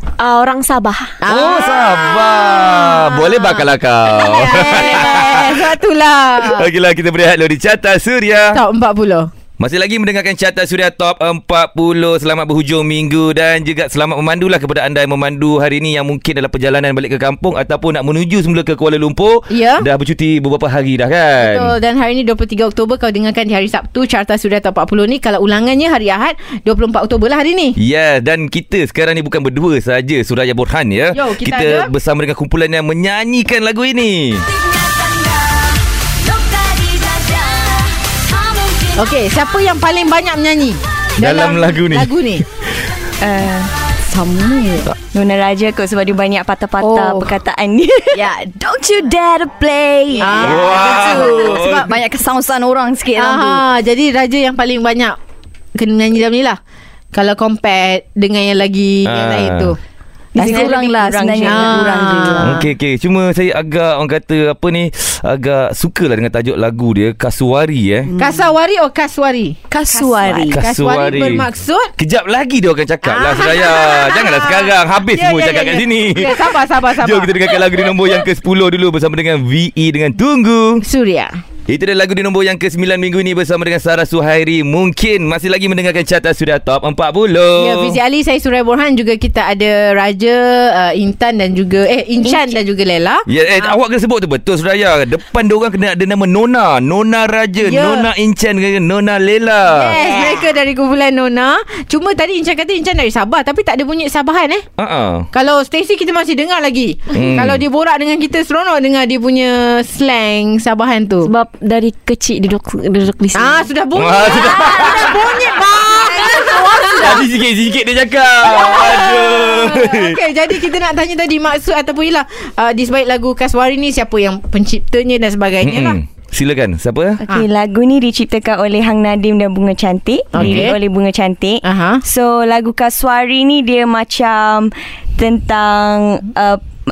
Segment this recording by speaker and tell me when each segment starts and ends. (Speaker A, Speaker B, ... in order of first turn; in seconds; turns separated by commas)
Speaker A: 0.2-1.2, Speaker B: 1.2-6.7, Speaker C: 1.3-5.7, Speaker C: 6.4-8.6, Speaker B: 8.5-9.3, Speaker C: 9.6-21.7, Speaker B: 19.5-19.9, Speaker B: 21.4-27.7, Speaker C: 27.8-34.5, Speaker B: 31.1-31.9, Speaker D: 34.5-39.0, Speaker B: 39.0-42.4, Speaker C: 41.2-42.1, Speaker D: 43.2-43.7, Speaker E: 44.0-44.9, Speaker D: 45.1-48.3, Speaker E: 46.8-47.4, Speaker E: 48.1-53.6, Speaker D: 50.1-50.4, Speaker B: 50.2-51.6, Speaker C: 50.4-52.0, Speaker B: 53.1-55.1, Speaker B: 55.7-56.6, Speaker B: 57.1-59.8, Speaker C: 59.0-59.7, Speaker E: 60.3-62.6, Speaker D: 60.4-62.1, Speaker B: 60.4-60.8, Speaker B: 61.4-62.6, Speaker C: 62.4-68.1, Speaker E: 68.1-68.4, Speaker B: 68.2-69.5, Speaker E: 69.7-70.6, Speaker D: 69.9-70.5, Speaker C: 70.5-80.8, Speaker B: 70.6-71.9, Speaker B: 73.0-78.2, Speaker B: 80.8-81.3, Speaker C: 81.7-88.0, Speaker B: 87.6-93.8, Speaker D: 92.2-92.5, Speaker C: 93.3-99.9, Speaker B: 97.6-98.1, Speaker B: 99.7-104.6, Speaker D: 100.0-100.4, Speaker C: 104.8-105.3, Speaker B: 105.3-111.3, Speaker C: 107.1-107.6, Speaker A: 111.2-113.7, Speaker B: 113.3-117.2, Speaker C: 114.0-115.3, Speaker C: 117.0-120.2, Speaker B: 118.4-126.0, Speaker C: 125.6-127.2, Speaker D: 127.3-136.6, Speaker B: 130.3-130.8, Speaker C: 130.3-130.7, Speaker B: 131.6-132.0